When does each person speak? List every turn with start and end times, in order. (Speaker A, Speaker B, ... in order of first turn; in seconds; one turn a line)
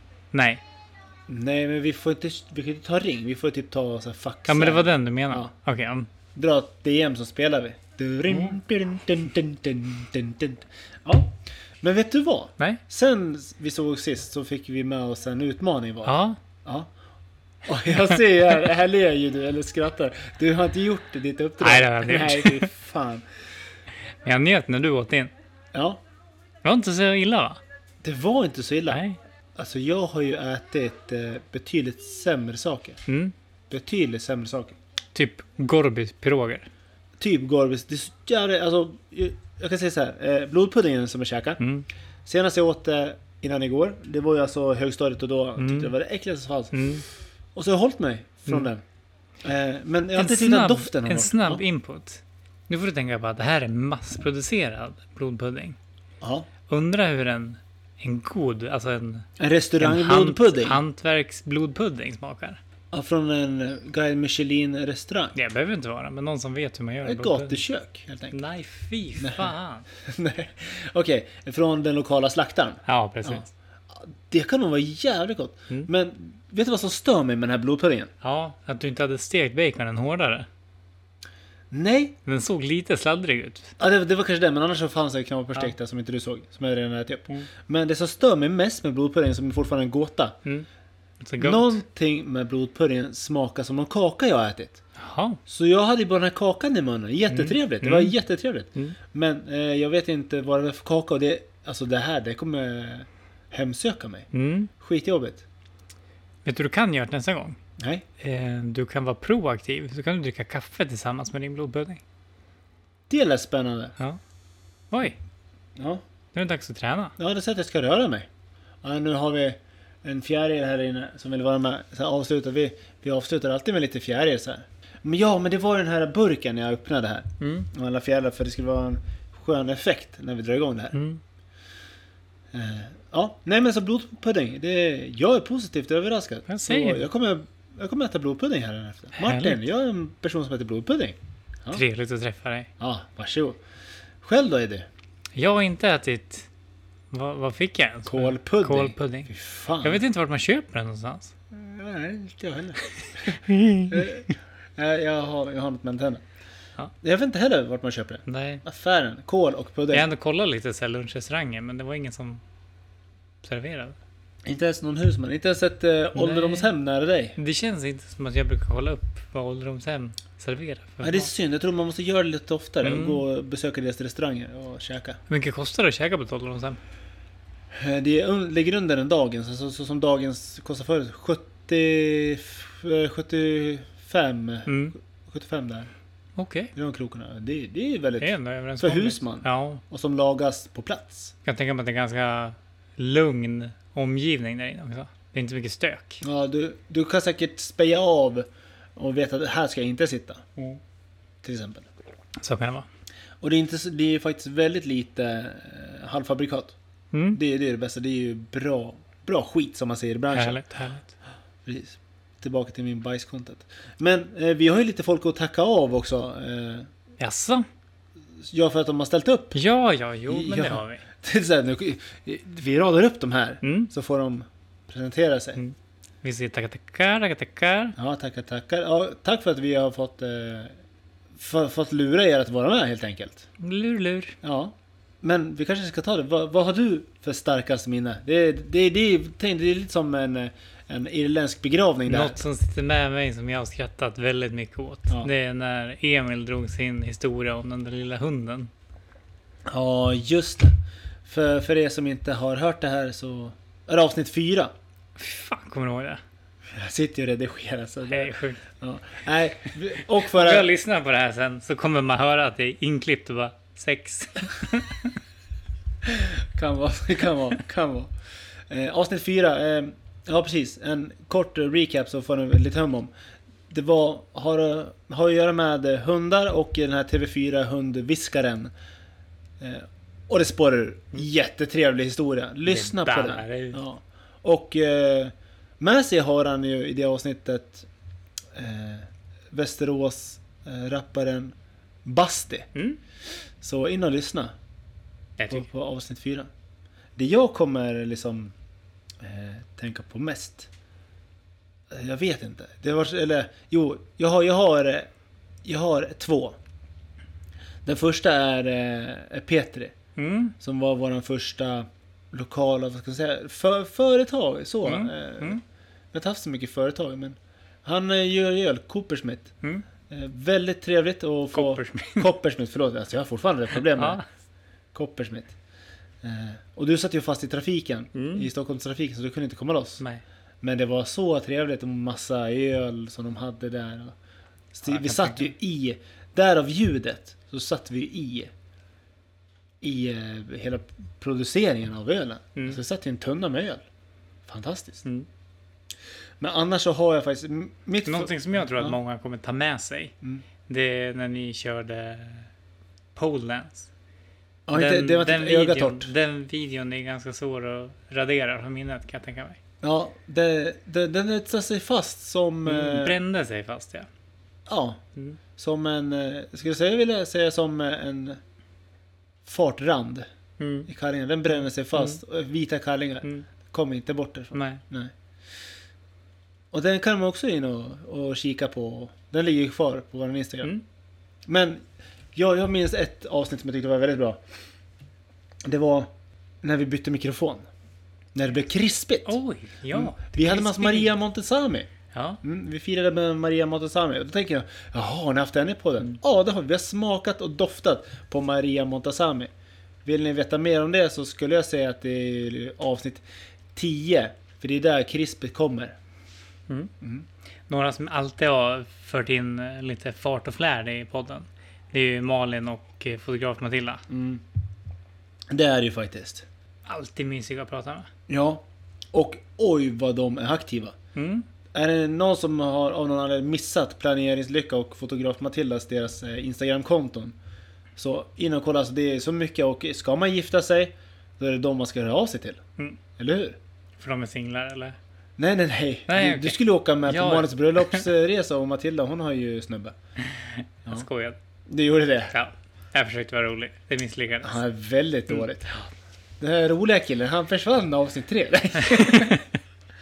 Speaker A: 0.3-0.6
Speaker B: 1.3-5.5
Speaker A: 4.5-6.1
Speaker B: 6.3-16.9
Speaker A: 8.3-8.6
Speaker A: 16.1-16.4
Speaker B: 17.7-23.2
Speaker A: 21.6-22.7
Speaker A: 24.2-25.3
Speaker B: 25.7-26.0
Speaker A: 26.6-27.6
Speaker B: 28.0-29.0
Speaker A: 28.9-29.2
Speaker B: 29.6-33.0
Speaker A: 33.1-33.3
Speaker B: 33.7-34.8
Speaker A: 35.1-36.7
Speaker B: 37.2-41.6
Speaker A: 41.6-41.9
Speaker B: 42.3-46.8
Speaker A: 45.6-45.9
Speaker A: 46.7-47.0
Speaker B: 47.5-48.8
Speaker B: 49.4-51.6
Speaker A: 50.1-55.8
Speaker B: 56.2-56.5
Speaker A: 56.7-59.3
Speaker B: 59.4-60.8
Speaker A: 59.8-62.6
Speaker B: 62.9-65.3
Speaker A: 65.3-67.6
Speaker B: 67.0-68.4
Speaker A: 68.3-69.9
Speaker B: 69.2-78.1
Speaker A: 72.9-73.5
Speaker A: 78.2-80.5
Speaker B: 81.7-82.2
Speaker A: 82.3-83.8
Speaker B: 83.8-90.4
Speaker A: 91.2-91.8
Speaker B: 91.4-94.8
Speaker A: 95.0-95.4
Speaker B: 95.5-104.3
Speaker A: 97.3-98.2
Speaker A: 104.3-104.7
Speaker B: 104.8-105.5
Speaker A: 106.5-107.6
Speaker B: 107.8-108.0
Speaker A: 108.2-112.0
Speaker B: 113.1-113.9
Speaker A: 114.9-115.2
Speaker B: 115.8-116.0
Speaker A: 116.3-117.2
Speaker B: 117.2-118.3
Speaker B: 118.8-131.0
Speaker A: 127.4-127.7
Speaker A: 130.9-131.2
Speaker B: 132.5-141.8
Speaker A: 136.5-137.0
Speaker A: 139.2-139.6
Speaker A: 141.7-142.7
Speaker B: 142.8-143.6
Speaker B: 144.2-144.9
Speaker A: 145.3-146.5
Speaker A: 147.1-149.3
Speaker B: 148.1-150.0
Speaker A: 149.8-151.3
Speaker B: 151.5-156.2
Speaker A: 153.0-154.2
Speaker B: 157.0-160.1
Speaker A: 158.3-158.7
Speaker A: 159.9-162.4
Speaker A: 163.4-164.0
Speaker B: 164.4-167.4
Speaker A: 166.2-166.7
Speaker A: 167.4-171.3
Speaker B: 171.0-175.2
Speaker A: 172.8-173.2
Speaker A: 175.3-176.8
Speaker B: 177.7-184.7
Speaker A: 184.7-184.9
Speaker B: 185.2-185.9
Speaker A: 186.4-186.7
Speaker B: 186.7-191.3
Speaker A: 188.2-189.8
Speaker A: 191.4-196.2
Speaker B: 196.2-200.5
Speaker B: 201.4-201.9
Speaker A: 202.4-202.9
Speaker B: 203.4-206.8
Speaker A: 207.1-207.4
Speaker B: 207.3-210.6
Speaker A: 210.3-211.1
Speaker B: 211.7-216.9
Speaker A: 217.2-217.7
Speaker B: 218.4-219.6
Speaker A: 219.5-221.0
Speaker B: 220.3-225.6
Speaker A: 223.6-223.9
Speaker A: 225.6-228.0
Speaker B: 228.0-230.7
Speaker B: 231.3-233.5
Speaker A: 233.6-234.4
Speaker B: 234.4-242.4
Speaker A: 242.1-248.7
Speaker B: 249.7-254.7
Speaker A: 255.2-256.2
Speaker B: 256.7-260.7
Speaker A: 258.1-258.6
Speaker A: 260.1-265.2
Speaker B: 266.0-268.1
Speaker B: 268.7-273.1
Speaker B: 273.7-278.7
Speaker B: 279.6-287.9
Speaker A: 282.7-283.8
Speaker B: 288.5-292.7
Speaker B: 293.6-294.6
Speaker A: 295.4-295.7
Speaker B: 295.5-296.5
Speaker B: 297.2-298.5
Speaker B: 299.2-300.7
Speaker B: 301.9-305.1
Speaker B: 305.6-306.6
Speaker B: 307.9-309.9
Speaker A: 310.2-310.6
Speaker B: 310.6-315.6
Speaker A: 314.8-315.6
Speaker B: 316.1-319.5
Speaker B: 320.1-324.2
Speaker A: 321.5-322.3
Speaker A: 323.9-324.3
Speaker B: 324.9-325.6
Speaker B: 326.2-330.0
Speaker A: 328.1-328.5
Speaker B: 330.6-334.1
Speaker B: 334.7-338.5
Speaker A: 334.9-335.5
Speaker B: 339.8-343.8
Speaker B: 344.4-345.1
Speaker B: 346.4-349.0
Speaker A: 348.1-350.1
Speaker A: 350.7-352.5
Speaker A: 353.2-353.9
Speaker B: 354.7-356.1
Speaker A: 354.7-359.6
Speaker B: 359.8-363.2
Speaker A: 362.7-364.1
Speaker B: 364.7-365.0
Speaker B: 365.6-368.4
Speaker B: 369.4-370.3
Speaker A: 370.6-370.9
Speaker B: 370.9-375.1
Speaker A: 371.5-372.2
Speaker A: 374.5-374.8
Speaker B: 376.7-380.7
Speaker B: 381.5-381.8
Speaker B: 382.3-384.4
Speaker B: 385.7-387.7
Speaker B: 388.4-389.4
Speaker A: 389.3-391.1
Speaker B: 389.9-391.9
Speaker A: 392.1-392.4
Speaker B: 392.4-399.5
Speaker B: 400.1-403.2
Speaker B: 403.8-406.0
Speaker A: 407.7-414.0
Speaker B: 414.1-414.4
Speaker B: 415.5-416.5
Speaker A: 416.9-418.1
Speaker B: 418.3-420.9
Speaker A: 421.1-421.5
Speaker B: 421.7-427.4
Speaker B: 428.0-432.6
Speaker B: 433.2-433.6
Speaker A: 434.0-435.0
Speaker B: 435.4-439.9
Speaker A: 436.1-438.1
Speaker A: 440.3-441.4
Speaker B: 441.7-442.3
Speaker A: 442.3-444.6
Speaker B: 444.4-445.8
Speaker B: 446.4-449.4
Speaker A: 448.9-449.6